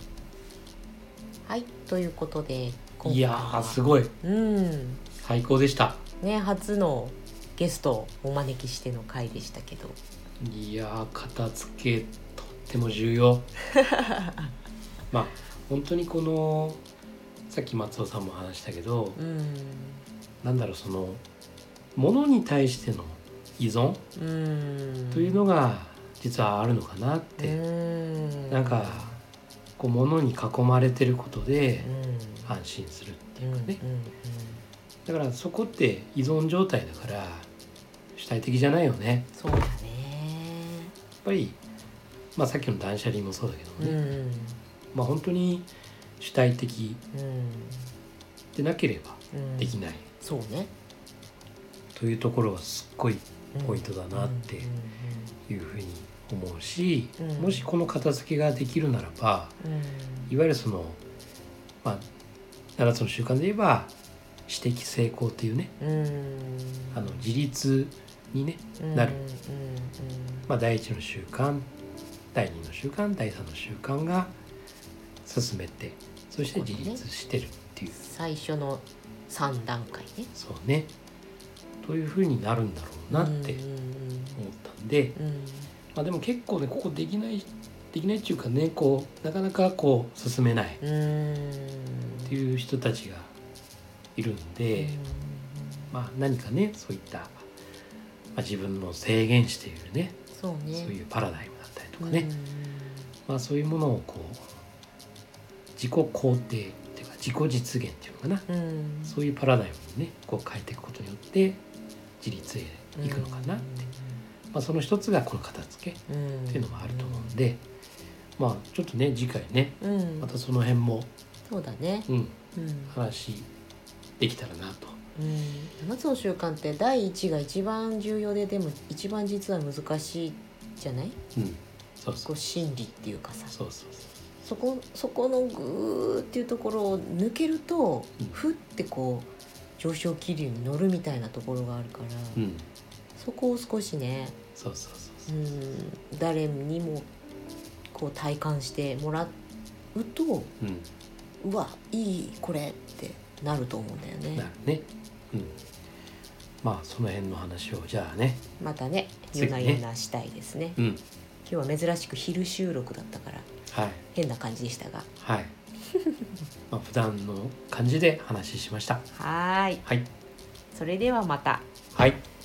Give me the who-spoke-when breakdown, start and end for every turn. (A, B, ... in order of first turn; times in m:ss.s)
0:01.4-0:05.0 A
0:03.0-0:04.1 B
0:05.2-0:06.0 B
0:06.2-0:10.0 A
0:10.4-0:13.5 B
0:15.1-0:16.8 B
0:17.5-0:19.2 B
0:19.2-0:20.0 A
0:20.4-0:21.2 B
0:21.9-0:24.0 B
0:24.2-0:25.4 A
0:25.1-0:27.6 B
0:27.4-0:29.2 A
0:28.5-0:29.2 B
0:29.8-0:31.9 B
0:31.8-0:32.6 A
0:32.4-0:33.8 B
0:33.4-0:34.6 A
0:35.0-0:37.5 B
0:38.1-0:39.3 B
0:39.3-0:40.9 A
0:41.2-0:41.6 B
0:42.4-0:44.0 B
0:43.8-0:44.6 A
0:44.9-0:47.0 B
0:47.1-0:47.9 A
0:48.5-0:50.1 B
0:49.3-0:50.7 A
0:51.9-0:54.7 B
0:53.5-0:55.4 A
0:55.5-0:59.6 B
0:57.2-0:57.7 A
0:59.6-1:00.3 A
1:00.3-1:01.0 B
1:01.8-1:02.1 B
1:02.8-1:03.9 B
1:04.5-1:05.7 B
1:05.8-1:07.2 A
1:06.9-1:09.2 B
1:08.8-1:10.5 A
1:10.5-1:11.7 B
1:12.3-1:14.3 B
1:15.2-1:17.9 B
1:16.5-1:17.0 A
1:17.9-1:20.3 A
1:20.3-1:20.9 B
1:21.8-1:23.6 B
1:23.1-1:24.4 A
1:24.3-1:25.2 B
1:25.2-1:25.7 A
1:25.9-1:30.8 B
1:30.8-1:32.3 A
1:32.3-1:33.3 B
1:34.2-1:35.0 B
1:34.7-1:35.9 A
1:35.9-1:37.4 B
1:38.3-1:40.2 B
1:40.3-1:40.9 A
1:40.8-1:42.3 B
1:42.0-1:43.1 A
1:43.3-1:44.5 B
1:45.8-1:48.5 B
1:48.5-1:49.1 A
1:49.0-1:51.6 B
1:52.2-1:53.8 B
1:53.0-1:54.2 A
1:54.5-1:57.6 B
1:56.1-1:57.4 A
1:58.4-2:01.1 B
1:59.8-2:00.3 A
2:01.4-2:03.0 A
2:02.1-2:03.5 B
2:04.2-2:05.0 B
2:05.2-2:11.2 A
2:11.4-2:12.3 B
2:12.2-2:13.6 A
2:13.5-2:14.0 B
2:14.4-2:22.4 A
2:22.3-2:22.7 B
2:23.2-2:24.4 A
2:24.6-2:25.3 B
2:25.3-2:27.1 A
2:27.9-2:29.4 A
2:29.9-2:30.5 A
2:30.6-2:30.9 B
2:31.4-2:34.5 A
2:34.3-2:35.5 B
2:36.6-2:38.4 B
2:38.6-2:40.8 A
2:39.3-2:39.8 B
2:40.8-2:41.0 B
2:41.4-2:43.5 A
2:43.7-2:44.0 B
2:44.1-2:45.1 A
2:45.2-2:45.5 B
2:46.7-2:49.1 B
2:49.1-2:49.8 A
2:49.8-2:50.1 B
2:50.7-2:51.7 A
2:51.9-2:52.2 B